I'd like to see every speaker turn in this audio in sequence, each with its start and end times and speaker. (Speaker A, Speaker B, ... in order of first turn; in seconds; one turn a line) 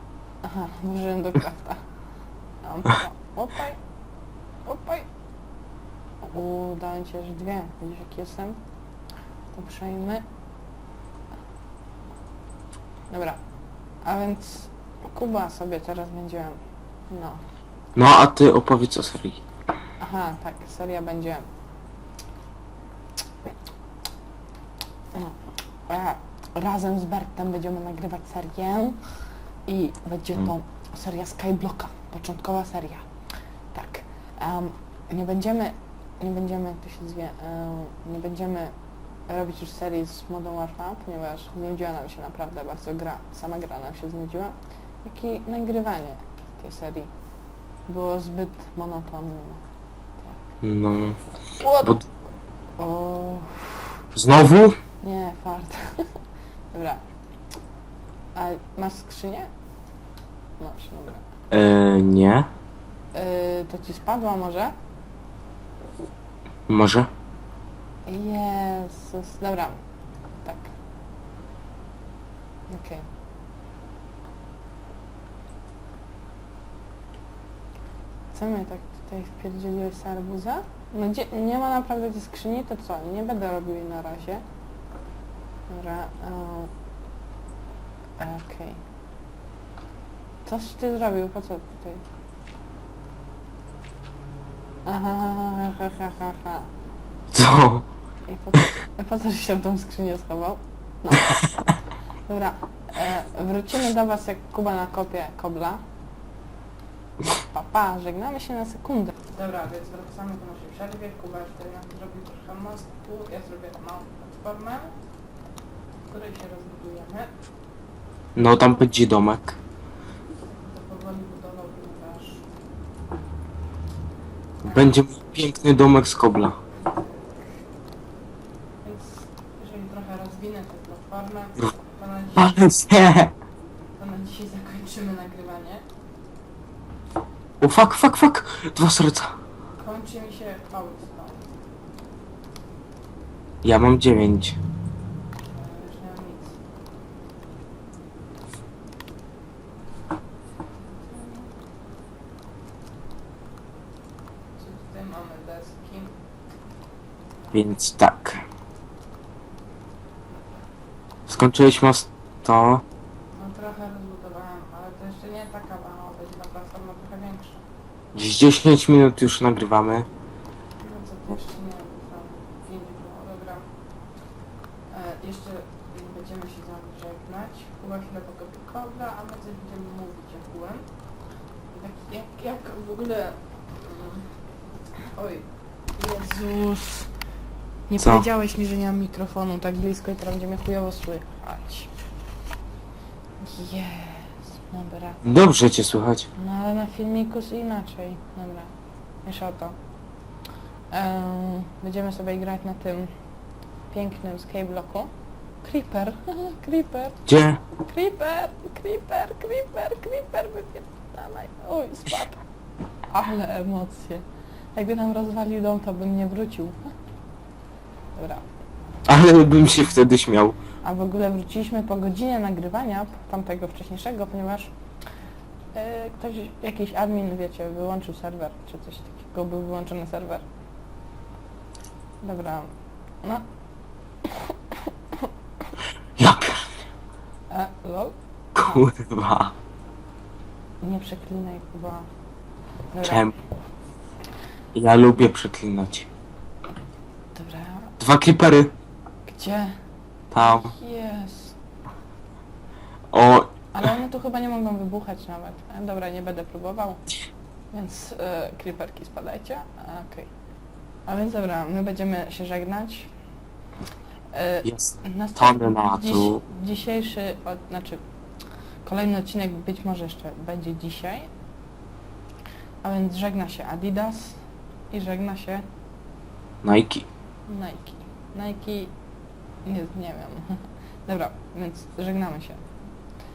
Speaker A: 0.4-1.8
Speaker A: 2.6-3.8
Speaker A: 4.7-5.1
Speaker A: 6.2-8.6
Speaker A: 9.5-10.2
Speaker A: 13.1-13.4
Speaker A: 14.1-16.6
Speaker A: 17.1-17.4
Speaker B: 18.0-19.4
Speaker A: 20.0-21.5
Speaker A: 25.9-29.0
Speaker A: 29.7-33.0
Speaker A: 33.7-38.7
Speaker A: 39.3-47.1
Speaker A: 47.9-49.6
Speaker B: 50.6-51.2
Speaker A: 51.6-52.0
Speaker A: 52.8-54.0
Speaker B: 54.1-54.8
Speaker A: 55.0-56.1
Speaker A: 56.7-57.0
Speaker A: 58.4-59.5
Speaker A: 60.6-61.2
Speaker B: 61.5-62.5
Speaker A: 63.1-64.7
Speaker B: 66.7-67.1
Speaker A: 68.1-69.8
Speaker A: 70.4-70.7
Speaker A: 72.7-73.1
Speaker A: 78.3-84.4
Speaker A: 85.7-86.7
Speaker A: 88.2-88.8
Speaker A: 90.5-92.0
Speaker A: 94.9-96.7
Speaker B: 97.3-97.9
Speaker A: 98.3-101.4
Speaker A: 102.3-105.8
Speaker A: 107.2-114.9
Speaker A: 116.0-117.3
Speaker B: 118.4-119.6
Speaker A: 120.6-122.5
Speaker B: 124.6-126.6
Speaker A: 128.8-132.7
Speaker B: 132.3-133.3
Speaker A: 134.0-135.8
Speaker B: 137.6-139.3
Speaker A: 139.8-141.5
Speaker B: 143.6-144.6
Speaker A: 145.5-146.6
Speaker A: 150.9-151.5
Speaker A: 154.6-156.1
Speaker B: 157.5-158.4
Speaker B: 161.3-162.8
Speaker A: 163.3-167.6
Speaker B: 168.1-170.1
Speaker A: 170.8-173.7
Speaker A: 174.9-180.9
Speaker A: 181.7-184.3
Speaker A: 185.1-187.1
Speaker A: 187.9-191.9
Speaker B: 188.0-188.3
Speaker A: 193.4-195.2
Speaker B: 195.2-196.3
Speaker A: 196.4-198.7
Speaker A: 199.2-199.8
Speaker A: 200.9-203.1
Speaker A: 203.9-205.1
Speaker A: 205.6-212.4
Speaker B: 207.3-207.6
Speaker A: 213.1-216.8
Speaker A: 218.2-218.4
Speaker B: 219.1-220.6
Speaker A: 220.8-224.7
Speaker A: 225.7-230.4
Speaker A: 232.2-232.7
Speaker A: 234.2-235.3
Speaker B: 236.2-236.7
Speaker A: 237.5-238.8
Speaker B: 238.6-239.6
Speaker A: 240.8-242.1
Speaker A: 242.9-243.3
Speaker B: 243.0-243.3
Speaker B: 244.7-246.1
Speaker A: 247.3-247.9
Speaker B: 248.0-248.7
Speaker A: 249.3-249.8
Speaker B: 250.3-250.7
Speaker A: 250.3-251.6
Speaker B: 253.1-253.7
Speaker A: 253.7-257.0
Speaker A: 257.7-260.3
Speaker A: 261.1-263.1
Speaker A: 264.3-268.0
Speaker B: 264.6-266.4
Speaker A: 268.9-271.3
Speaker A: 272.8-274.4
Speaker A: 274.9-275.6
Speaker B: 276.6-277.1
Speaker A: 277.5-278.9
Speaker A: 279.7-282.7